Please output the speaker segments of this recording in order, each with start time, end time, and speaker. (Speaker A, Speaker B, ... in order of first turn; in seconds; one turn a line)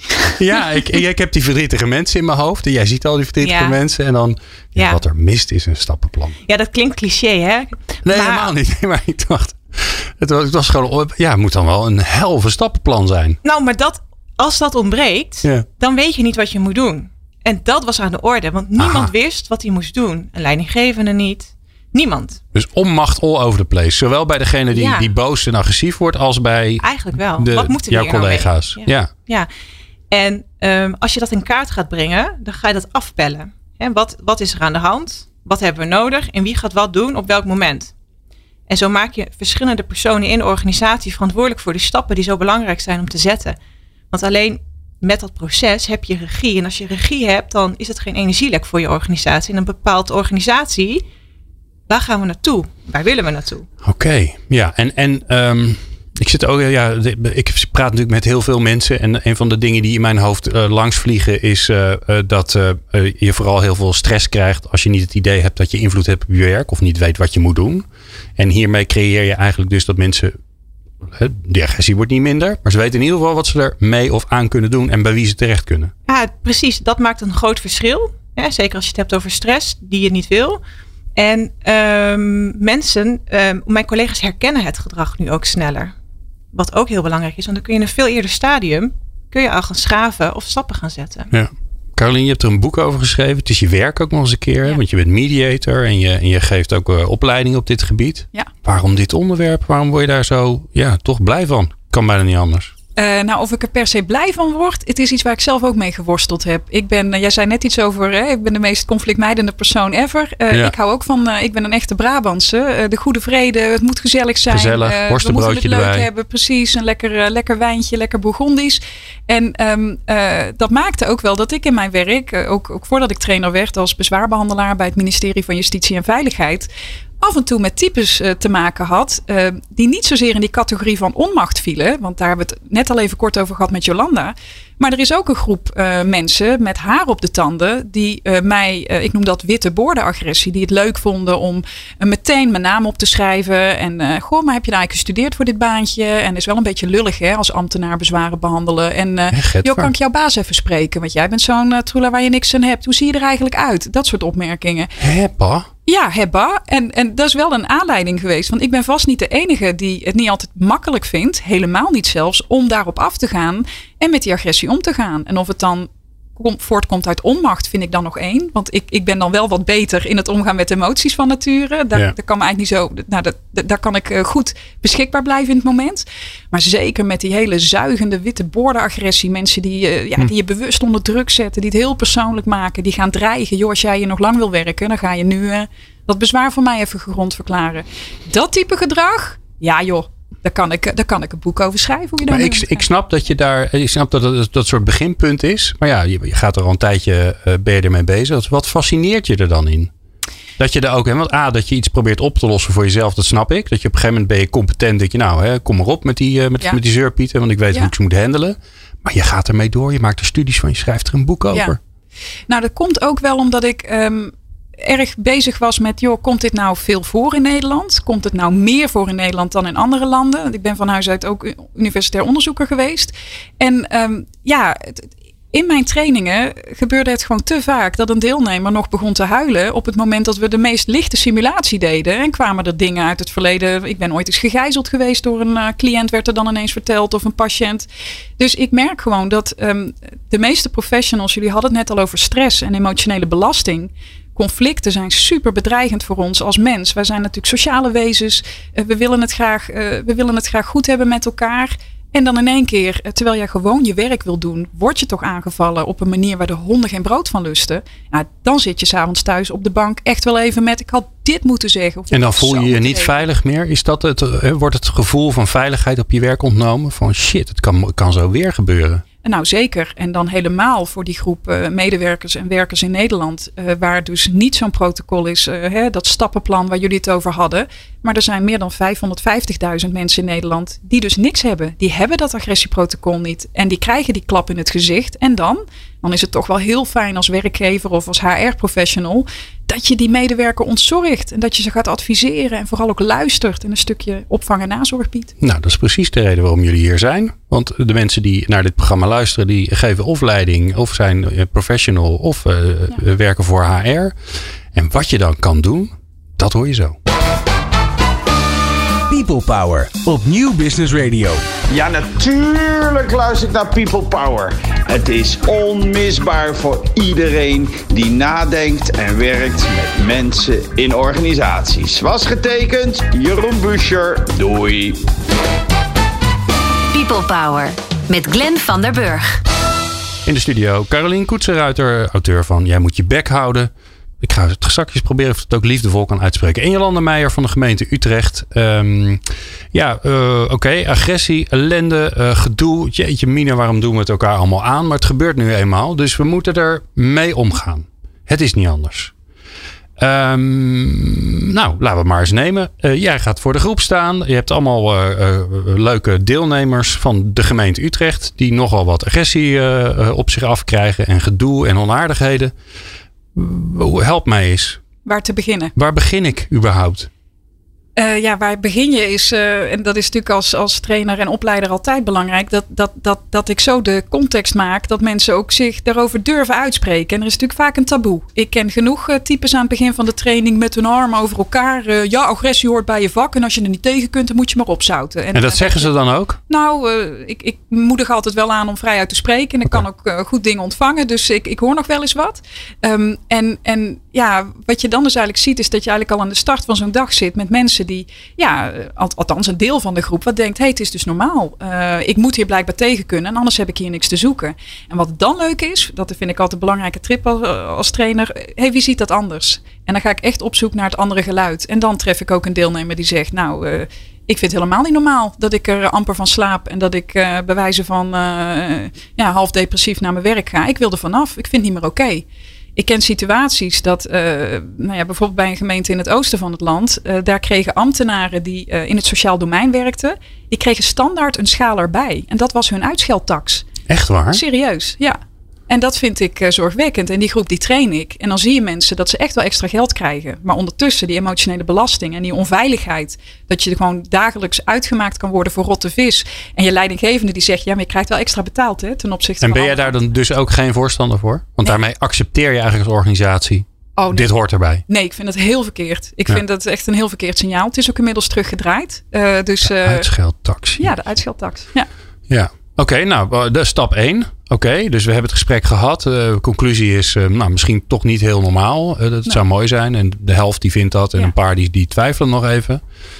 Speaker A: 0.3-6.4
Speaker B: 3.4-3.8
Speaker B: 4.8-5.0
Speaker B: 6.5-8.5
Speaker A: 8.0-13.4
Speaker B: 13.4-22.4
Speaker A: 18.8-19.1
Speaker A: 22.5-29.1
Speaker B: 24.7-25.1
Speaker B: 26.8-29.5
Speaker B: 30.1-37.9
Speaker B: 38.7-43.6
Speaker B: 44.1-51.0
Speaker B: 51.9-53.7
Speaker A: 53.8-70.3
Speaker A: 71.0-75.9
Speaker B: 76.1-80.6
Speaker B: 81.2-85.9
Speaker B: 86.5-91.3
Speaker A: 91.3-102.7
Speaker C: 103.0-126.7
Speaker A: 114.5-116.1
Speaker C: 127.2-154.9
Speaker A: 149.3-149.9
Speaker A: 155.0-155.7
Speaker C: 155.8-192.8
Speaker A: 192.3-199.9
Speaker A: 200.6-211.8
Speaker C: 212.5-237.9
Speaker C: 238.4-263.2
Speaker A: 262.1-269.0
Speaker C: 269.2-295.3
Speaker A: 295.4-304.1
Speaker A: 304.7-307.0
Speaker D: 309.1-311.4
Speaker E: 311.7-325.0
Speaker F: 326.9-329.4
Speaker A: 330.2-349.1
Speaker A: 350.0-362.5
Speaker A: 363.3-364.8
Speaker C: 365.0-365.7
Speaker A: 365.8-367.1
Speaker C: 368.0-385.9
Speaker A: 385.3-386.4
Speaker C: 386.5-422.2
Speaker C: 422.8-433.7
Speaker A: 433.9-434.4
Speaker C: 434.3-449.9
Speaker A: 449.4-454.8
Speaker C: 454.0-454.3
Speaker C: 454.9-460.1
Speaker A: 459.6-461.1
Speaker C: 460.8-461.9
Speaker A: 462.3-472.8